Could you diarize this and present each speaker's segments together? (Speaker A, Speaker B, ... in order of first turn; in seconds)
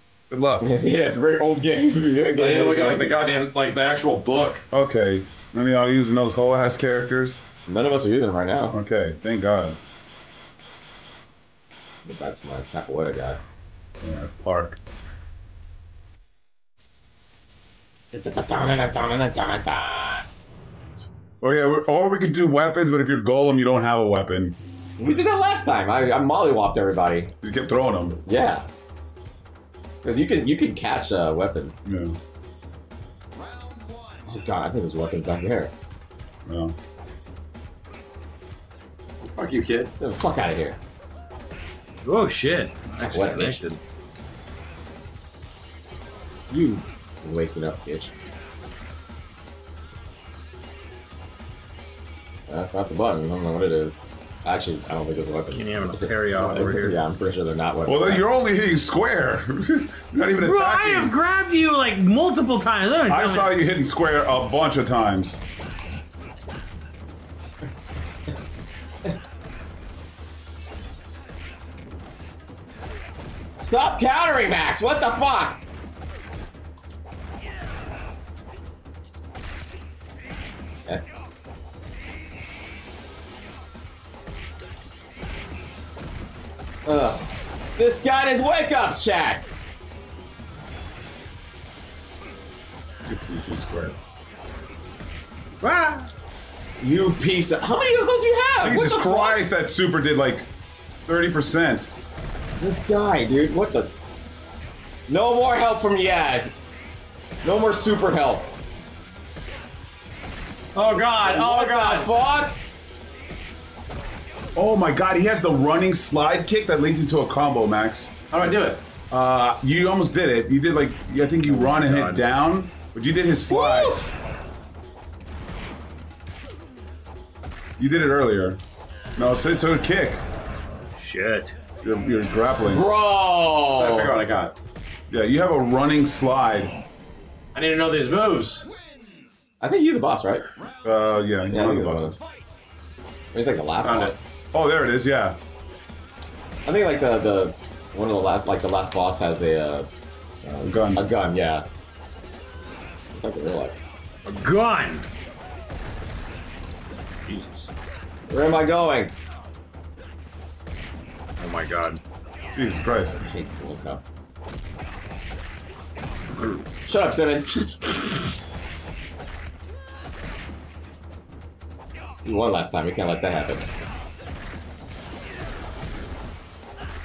Speaker A: 0.3-0.7, 4.7-7.4, 8.7-9.8, 14.0-14.8, 21.4-24.6, 27.4-28.2, 31.9-32.2, 36.5-36.8, 57.9-61.1, 63.1-65.4, 93.1-94.0, 98.6-100.5, 101.1-101.9, 114.6-118.1, 119.1-123.9, 127.8-128.6, 129.2-130.2, 131.8-132.9, 135.1-136.8, 140.8-142.2, 144.5-145.4, 150.6-151.1, 162.6-163.2
Speaker B: 0.6-3.1, 7.7-8.8, 12.1-13.4, 18.1-20.3, 25.0-27.3, 28.3-28.7, 30.0-31.8, 34.3-35.7, 40.0-40.8, 43.0-43.6, 46.5-48.1, 52.5-58.2, 73.6-75.6, 86.8-89.5, 96.8-99.4, 102.6-103.9, 105.1-106.5, 107.4-108.5, 111.2-112.6, 123.5-124.2, 132.7-134.2, 139.6-140.4, 141.5-142.2, 143.3-144.2, 146.7-149.9, 150.4-151.7, 153.1-153.8, 158.3-159.1, 163.1-164.0, 166.9-167.7, 172.2-173.6
Speaker C: 2.4-4.6, 39.2-39.9, 110.8-112.1, 118.3-118.8, 133.8-134.5, 137.6-138.7, 143.8-144.2
Speaker D: 42.0-43.8, 55.5-57.0, 60.4-63.5, 95.6-96.1, 121.5-122.2, 131.0-131.6, 154.3-155.1, 157.3-157.7, 161.4-162.0